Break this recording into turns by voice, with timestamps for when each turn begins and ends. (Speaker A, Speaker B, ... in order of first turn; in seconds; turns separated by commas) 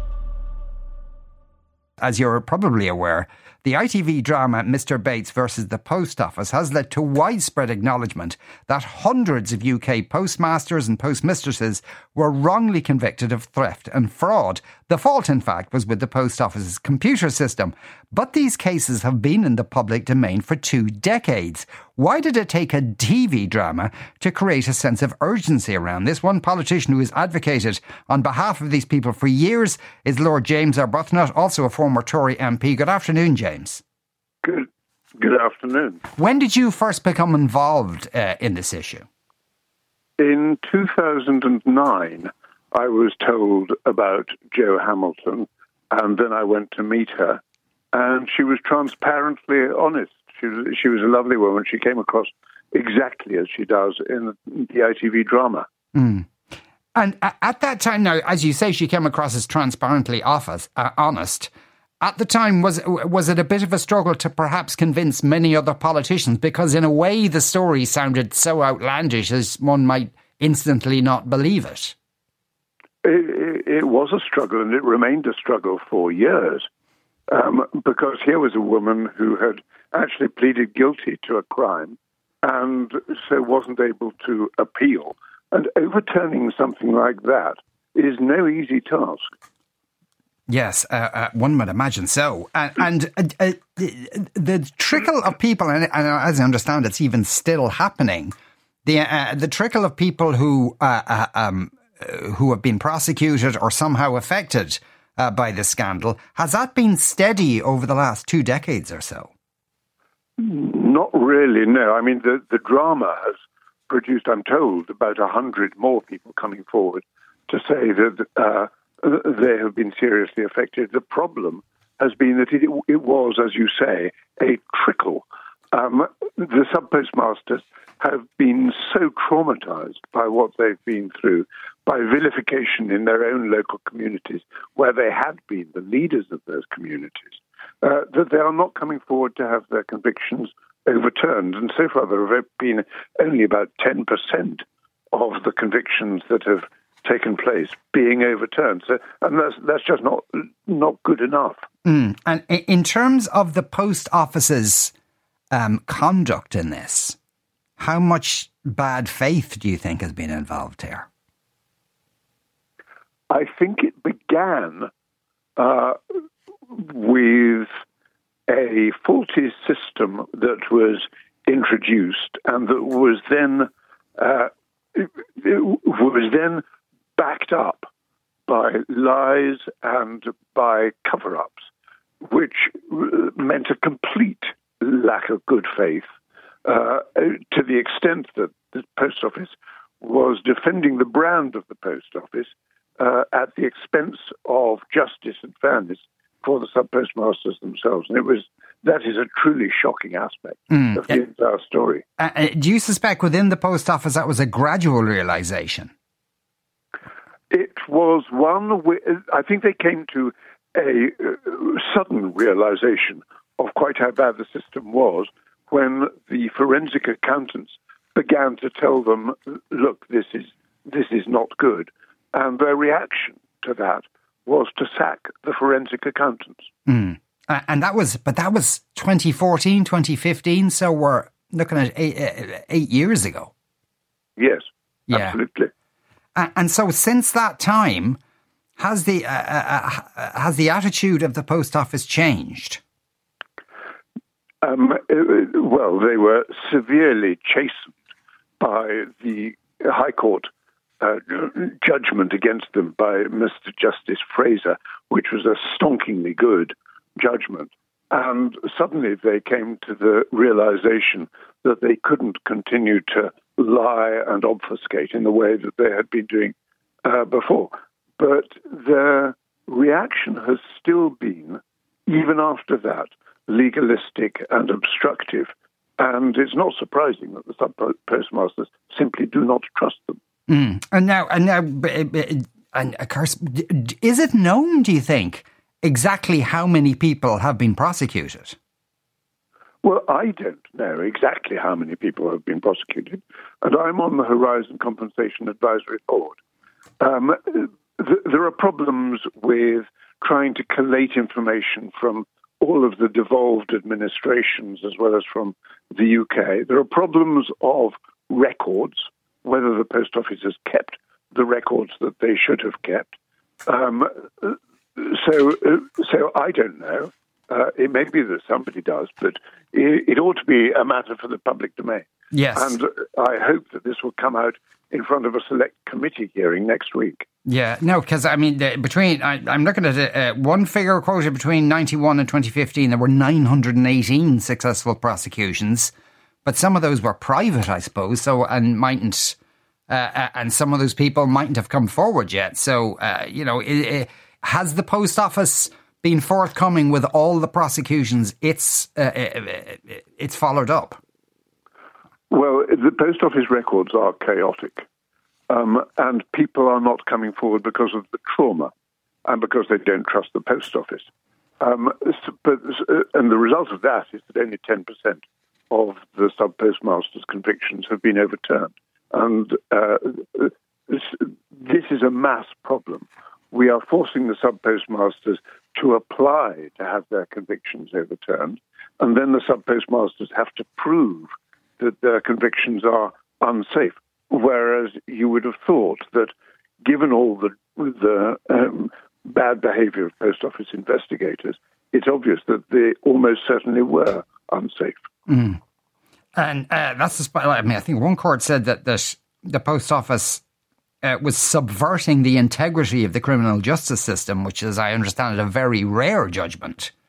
Speaker A: 2.0-33.8, Speaker B: 34.4-36.0, Speaker A: 36.2-39.1, Speaker B: 40.2-47.4, Speaker B: 47.9-55.7, Speaker A: 56.0-56.3, Speaker A: 57.0-61.5, Speaker A: 62.0-72.0, Speaker B: 73.0-76.7, Speaker B: 77.3-89.3, Speaker A: 90.5-98.3, Speaker A: 98.8-109.3, Speaker B: 110.4-151.7, Speaker A: 151.8-154.9, Speaker A: 155.5-157.2, Speaker A: 157.8-161.1, Speaker B: 163.3-164.9, Speaker B: 165.6-166.0, Speaker B: 166.7-167.7, Speaker B: 168.5-176.6, Speaker B: 177.2-177.9, Speaker B: 178.5-181.7, Speaker B: 182.2-186.1, Speaker B: 186.7-202.0, Speaker A: 200.7-201.2, Speaker A: 202.2-205.9, Speaker B: 207.5-226.7, Speaker A: 226.9-233.5, Speaker B: 234.4-235.7, Speaker A: 235.1-235.3, Speaker A: 236.4-238.2, Speaker A: 238.8-242.8, Speaker B: 244.6-247.9, Speaker B: 248.6-280.2, Speaker A: 280.5-288.6, Speaker B: 289.8-296.4, Speaker B: 297.0-313.1, Speaker B: 313.7-327.3, Speaker A: 322.3-322.8, Speaker A: 327.5-335.9, Speaker A: 336.4-339.4, Speaker A: 339.9-351.0, Speaker B: 352.3-354.9, Speaker B: 355.5-358.7, Speaker B: 359.2-361.1, Speaker B: 361.6-395.1, Speaker A: 395.3-395.6, Speaker A: 396.4-400.4, Speaker A: 401.0-406.9